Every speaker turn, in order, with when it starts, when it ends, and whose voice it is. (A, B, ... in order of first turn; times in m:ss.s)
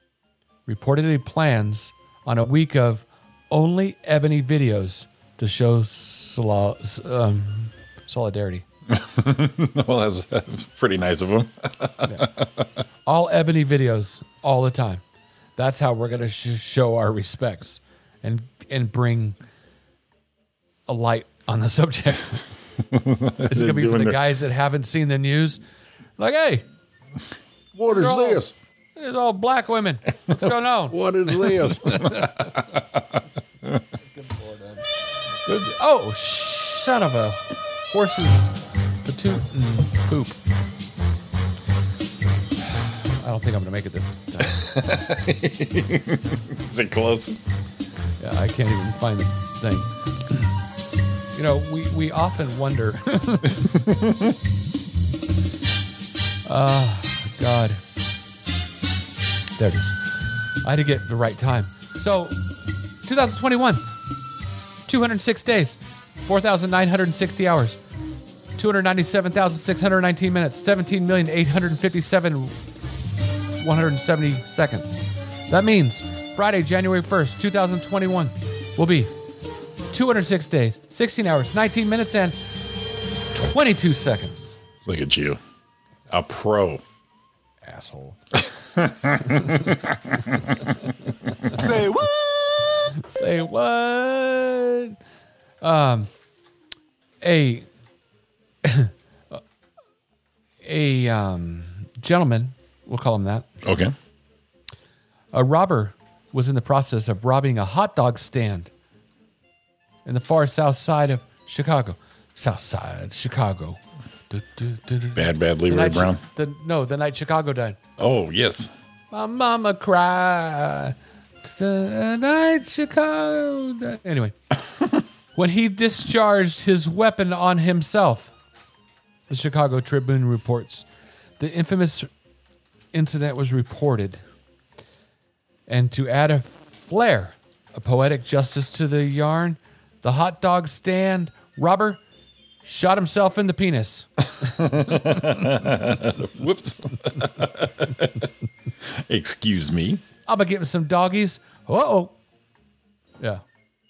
0:00.7-0:08.6 A
0:08.9-0:12.7 B
0:12.0-0:12.3 A
0:13.0-0:15.0 A
0:15.6-0:19.4 A
0:20.9-0:22.5 A
0:22.8-0:24.2 B
0:23.5-0:25.6 A
0:26.2-0:26.6 A
0:27.7-0:28.5 B
0:27.9-0:28.4 A
0:29.0-0:32.6 A
0:30.3-0:33.8 B
0:34.2-0:34.8 A
0:35.4-0:40.4 A
0:43.2-0:44.7 A
0:44.4-0:47.4 B
0:48.2-0:50.5 A
0:51.3-0:53.7 A
0:53.6-0:54.3 B
0:56.4-0:57.8 A
0:59.6-1:00.0 A
1:00.6-1:02.4 A
1:03.0-1:03.8 A
1:04.9-1:07.8 A
1:08.6-1:12.6 A
1:13.6-1:19.1 A
1:19.9-1:22.4 A
1:23.3-1:24.5 A
1:24.8-1:25.4 B
1:26.1-1:26.8 B
1:27.6-1:28.2 A
1:28.3-1:30.7 B
1:31.4-1:32.0 B
1:31.5-1:31.9 A
1:32.8-1:35.0 A
1:35.6-1:36.1 A
1:37.2-1:37.7 A
1:38.6-1:39.4 A
1:40.6-1:43.5 A
1:43.6-1:43.9 B
1:45.3-1:48.7 A
1:50.0-1:57.8 A
1:55.1-1:56.2 B
1:58.0-1:58.7 B
1:59.1-2:04.3 A
2:05.3-2:08.3 A
2:09.3-2:10.8 A
2:11.4-2:12.1 A
2:12.9-2:14.2 A
2:15.7-2:22.0 A
2:22.6-2:25.3 A
2:24.4-2:28.3 B
2:28.9-2:30.0 B
2:30.3-2:32.1 A